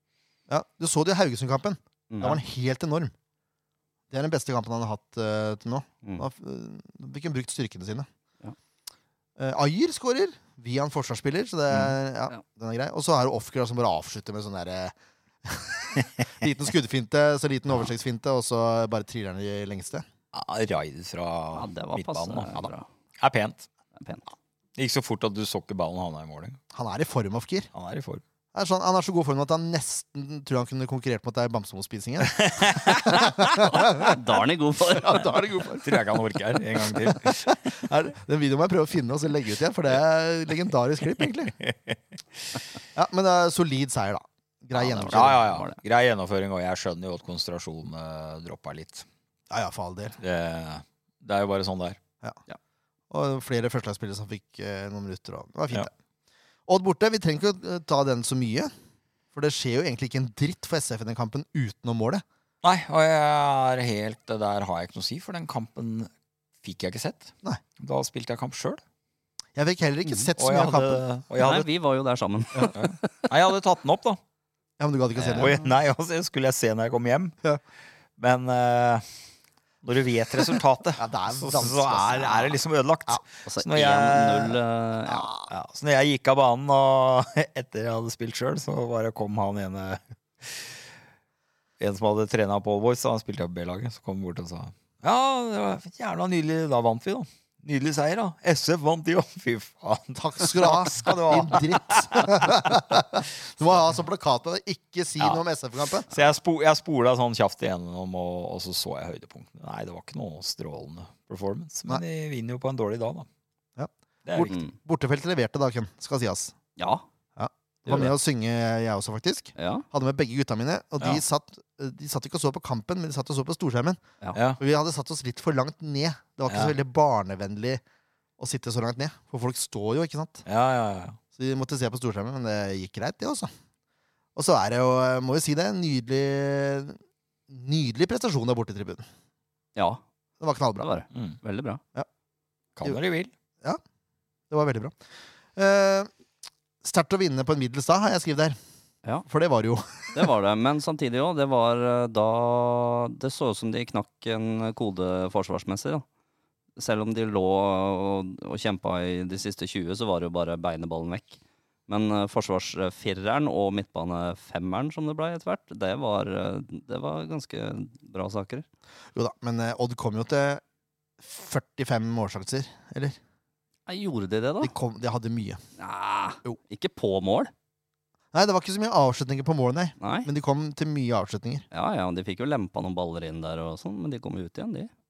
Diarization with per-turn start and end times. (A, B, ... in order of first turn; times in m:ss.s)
0:00.5-0:03.1 A
0:02.1-0:02.4 B
0:04.1-0:08.1 A
0:09.4-0:20.1 A
0:20.3-0:23.7 C
0:21.6-0:22.9 B
0:24.0-0:24.3 B
0:24.8-0:26.6 C
0:26.7-0:27.7 A
0:27.7-0:28.2 C
0:28.5-0:34.4 A
0:32.2-0:33.7 C
0:33.5-0:35.4 B
0:34.9-0:36.1 A
0:35.8-0:37.8 C
0:36.8-0:41.6 A
0:41.1-0:42.6 C
0:43.0-0:45.5 A
0:44.8-0:45.8 B
0:45.1-0:49.1 C
0:49.5-0:50.2 A
0:50.2-0:52.0 C
0:53.1-0:55.9 A
0:56.7-0:58.7 A
0:59.3-1:02.2 A
1:02.6-1:06.1 C
1:06.6-1:08.8 C
1:09.6-1:11.0 A
1:10.4-1:11.7 C
1:11.4-1:13.3 B
1:12.7-1:14.2 C
1:14.8-1:15.7 A
1:15.2-1:15.5 B
1:15.3-1:17.4 C
1:18.2-1:19.2 C
1:19.8-1:24.6 C
1:21.0-1:23.2 A
1:23.5-1:25.3 B
1:25.1-1:25.5 A
1:25.5-1:30.9 C
1:31.8-1:42.8 C
1:40.2-1:46.1 A
1:46.0-1:53.3 C
1:53.8-1:56.6 A
1:54.2-1:54.5 C
1:54.4-1:54.7 B
1:56.8-1:57.0 B
1:57.4-2:04.0 A
1:57.9-1:58.1 B
1:59.6-1:59.8 B
2:04.3-2:04.6 C
2:04.6-2:07.8 A
2:06.5-2:06.7 C
2:08.4-2:10.5 A
2:10.5-2:11.2 C
2:11.4-2:13.5 A
2:14.4-2:17.0 A
2:17.5-2:19.1 A
2:19.8-2:20.0 B
2:20.4-2:20.9 A
2:20.8-2:21.8 B
2:21.1-2:21.4 C
2:22.8-2:23.3 C
2:24.5-2:25.0 A
2:25.6-2:26.1 A
2:26.8-2:28.6 A
2:29.3-2:30.2 A
2:30.2-2:36.0 B
2:36.8-2:48.7 B
2:49.2-2:50.6 A
2:51.2-2:53.2 A
2:53.9-2:54.7 B
2:54.6-2:55.6 A
2:55.8-2:57.5 B
2:58.3-3:01.6 A
3:00.0-3:00.3 B
3:01.7-3:04.9 B